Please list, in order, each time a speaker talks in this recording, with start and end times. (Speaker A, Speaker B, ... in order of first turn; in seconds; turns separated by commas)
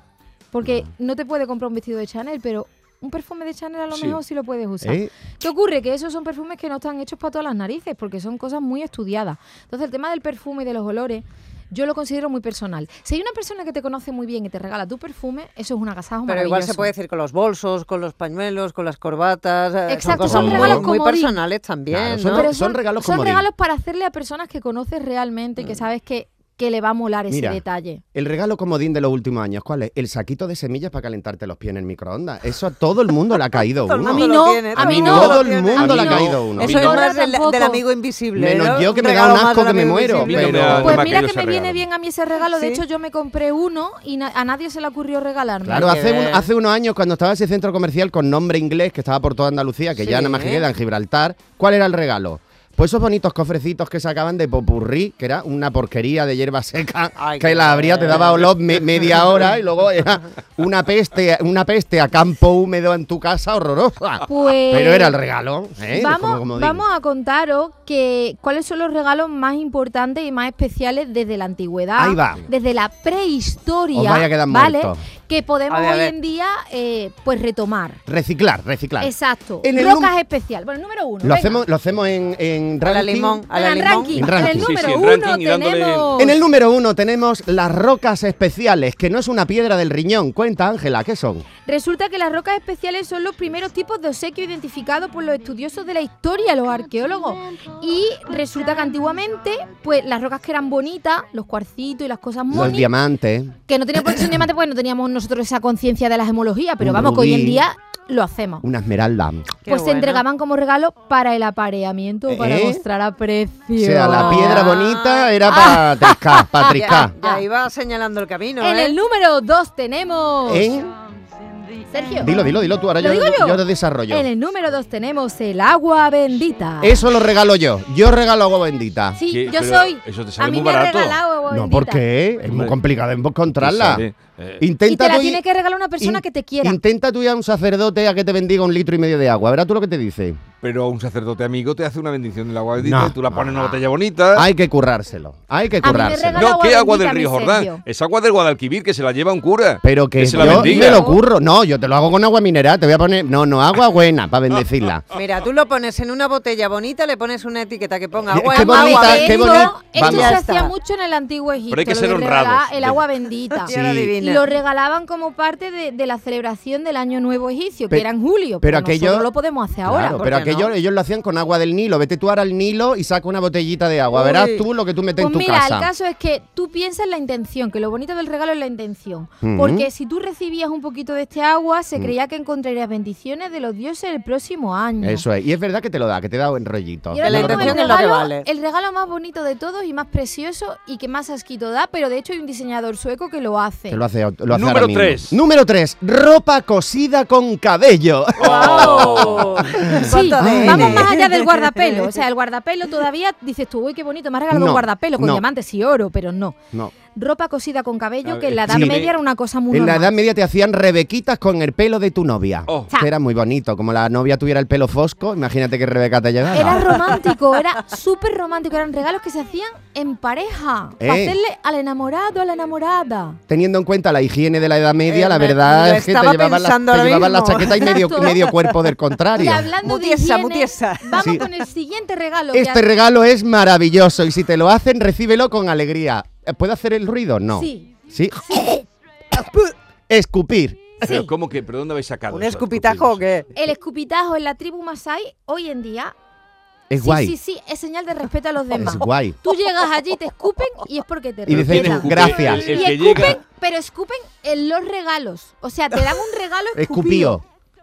Speaker A: 0.5-16.9, Speaker B: 3.9-4.2, Speaker C: 4.8-5.1, Speaker D: 16.3-22.5, Speaker A: 19.9-21.4, Speaker C: 20.1-20.9, Speaker C: 21.9-23.5, Speaker A: 22.3-28.0, Speaker C: 27.3-27.6, Speaker C: 28.1-36.9, Speaker D: 33.8-40.9, Speaker A: 34.0-37.8, Speaker B: 36.5-37.1, Speaker C: 38.4-41.1, Speaker B: 40.2-41.8, Speaker A: 40.8-46.0, Speaker D: 42.4-42.8, Speaker C: 45.6-66.8, Speaker D: 45.7-46.5, Speaker D: 50.0-50.7, Speaker D: 57.2-58.5, Speaker A: 64.2-65.2, Speaker A: 65.9-78.0, Speaker C: 72.0-72.5, Speaker C: 73.9-75.0, Speaker D: 75.7-76.1, Speaker C: 78.1-80.1, Speaker A: 79.0-81.6, Speaker C: 81.2-83.5, Speaker D: 82.8-84.5, Speaker A: 83.5-86.4, Speaker C: 84.1-84.7, Speaker B: 84.5-86.3, Speaker C: 86.2-91.5, Speaker A: 91.7-102.9, Speaker C: 102.5-103.5, Speaker A: 103.7-108.7, Speaker C: 104.1-104.3, Speaker C: 106.8-107.6, Speaker C: 108.6-109.5, Speaker D: 109.7-110.2, Speaker A: 109.7-114.7, Speaker C: 112.3-112.8, Speaker C: 113.8-117.1, Speaker D: 114.1-115.8, Speaker A: 115.5-117.4, Speaker D: 116.7-119.0, Speaker A: 118.6-120.7, Speaker C: 120.5-120.9, Speaker A: 121.9-127.0, Speaker C: 122.2-124.3, Speaker C: 126.8-129.2, Speaker A: 129.2-132.1, Speaker B: 129.3-131.2, Speaker C: 131.5-134.1, Speaker B: 132.5-132.8, Speaker B: 133.5-134.6, Speaker C: 134.6-135.4, Speaker A: 134.8-136.8, Speaker C: 136.0-140.4, Speaker B: 140.6-144.5, Speaker C: 142.8-146.5, Speaker A: 145.8-147.8, Speaker B: 146.4-151.1, Speaker C: 149.8-155.1, Speaker A: 150.3-151.2, Speaker D: 155.1-160.7, Speaker C: 158.3-160.4, Speaker A: 158.5-170.2, Speaker B: 161.7-163.0, Speaker D: 163.7-164.6, Speaker C: 163.7-164.1, Speaker C: 168.6-169.3, Speaker C: 169.8-175.9, Speaker D: 170.1-170.7, Speaker D: 174.1-174.7, Speaker A: 175.2-185.3, Speaker C: 179.4-179.9, Speaker C: 185.0-188.1, Speaker A: 187.1-194.0, Speaker D: 187.2-188.5, Speaker C: 193.9-201.1, Speaker B: 194.5-195.4, Speaker B: 198.4-199.7, Speaker D: 198.4-202.1, Speaker A: 198.8-199.2, Speaker A: 200.0-206.6, Speaker C: 204.5-205.4, Speaker A: 207.1-210.1, Speaker B: 208.2-209.2, Speaker C: 208.7-209.1, Speaker C: 209.7-217.1, Speaker A: 216.5-223.4, Speaker C: 221.0-221.4, Speaker C: 223.5-229.7, Speaker D: 225.1-228.5, Speaker A: 227.9-228.4, Speaker A: 229.4-232.8, Speaker D: 229.8-231.4, Speaker C: 231.2-231.4, Speaker C: 232.5-238.8, Speaker A: 237.6-238.7, Speaker D: 239.4-239.7, Speaker C: 240.1-241.0, Speaker A: 241.0-241.3, Speaker B: 241.0-243.2, Speaker D: 242.3-243.5, Speaker A: 243.6-246.1, Speaker C: 246.9-247.4, Speaker A: 247.0-257.4, Speaker C: 248.7-249.4, Speaker C: 251.5-253.2, Speaker B: 251.5-253.4, Speaker C: 256.8-257.4